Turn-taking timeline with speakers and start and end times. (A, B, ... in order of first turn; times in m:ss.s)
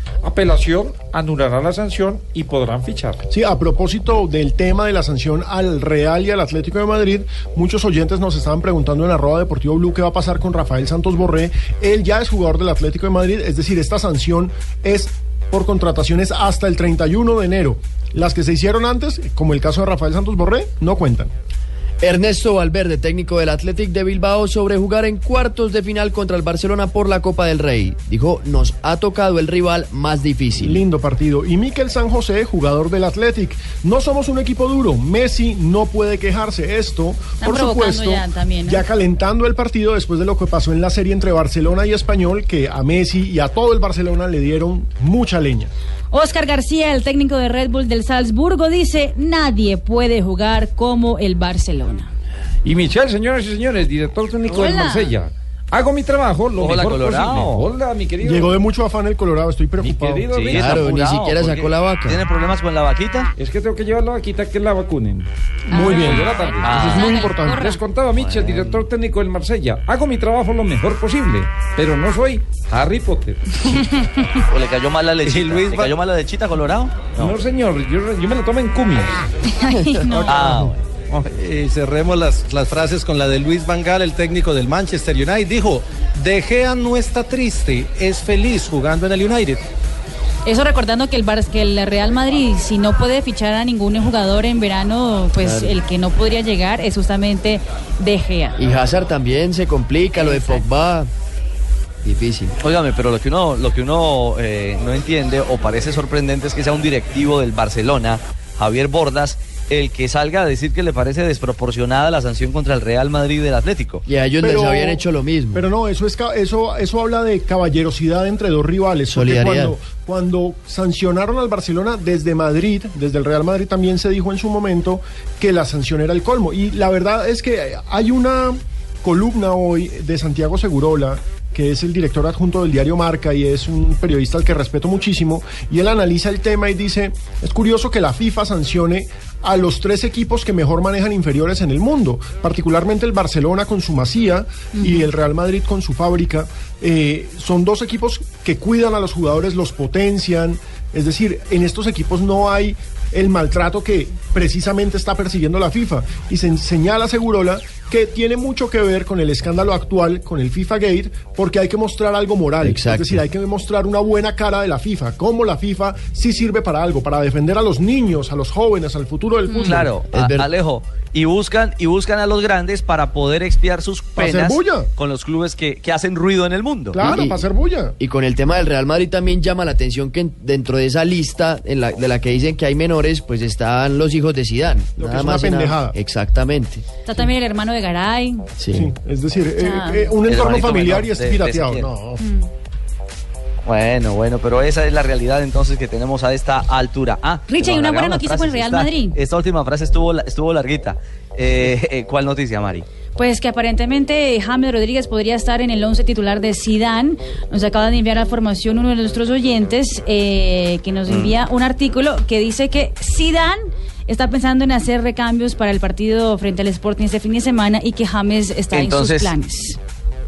0:00.2-0:03.2 A
0:03.3-0:21.3 B
0:22.0-0:30.8 C
0:30.6-0:45.7 B
0:37.4-0:38.8 D
0:46.1-0:52.1 D
0:52.6-0:58.6 A
0:54.5-0:55.1 D
0:56.6-0:57.6 E
0:58.2-1:00.3 B
0:59.8-1:00.9 A
1:00.3-1:03.3 E
1:00.5-1:02.2 C
1:03.4-1:05.3 A
1:05.7-1:07.7 B
1:05.7-1:07.8 D
1:05.8-1:06.9 A
1:06.6-1:07.0 E
1:07.5-1:13.4 A
1:08.2-1:08.8 E
1:14.4-1:17.4 E
1:15.2-1:15.9 F
1:17.2-1:19.2 A
1:19.5-1:20.4 D
1:20.1-1:20.6 B
1:20.3-1:20.7 E
1:20.5-1:29.6 F
1:30.4-1:38.6 D
1:35.4-1:35.8 C
1:38.6-1:41.1 C
1:40.2-1:40.6 D
1:42.0-1:42.5 C
1:42.6-1:54.0 E
1:54.1-1:55.6 C
1:54.4-1:55.0 B
1:55.5-2:49.9 B
1:59.1-1:59.7 C
2:24.7-2:25.1 D
2:42.6-2:43.2 C
2:49.6-2:57.0 E
2:50.1-2:50.5 C
2:54.2-2:54.9 B
2:56.9-2:57.9 B
2:57.0-2:57.4 C
2:58.0-3:06.8 C
3:05.0-3:06.0 B
3:07.0-3:08.4 D
3:08.6-3:08.9 C
3:08.7-3:12.2 B
3:09.6-3:10.1 D
3:10.3-3:11.9 E
3:13.6-3:22.8 E
3:17.5-3:19.2 D
3:23.2-3:39.8 D
3:31.1-3:31.4 E
3:38.7-3:39.3 E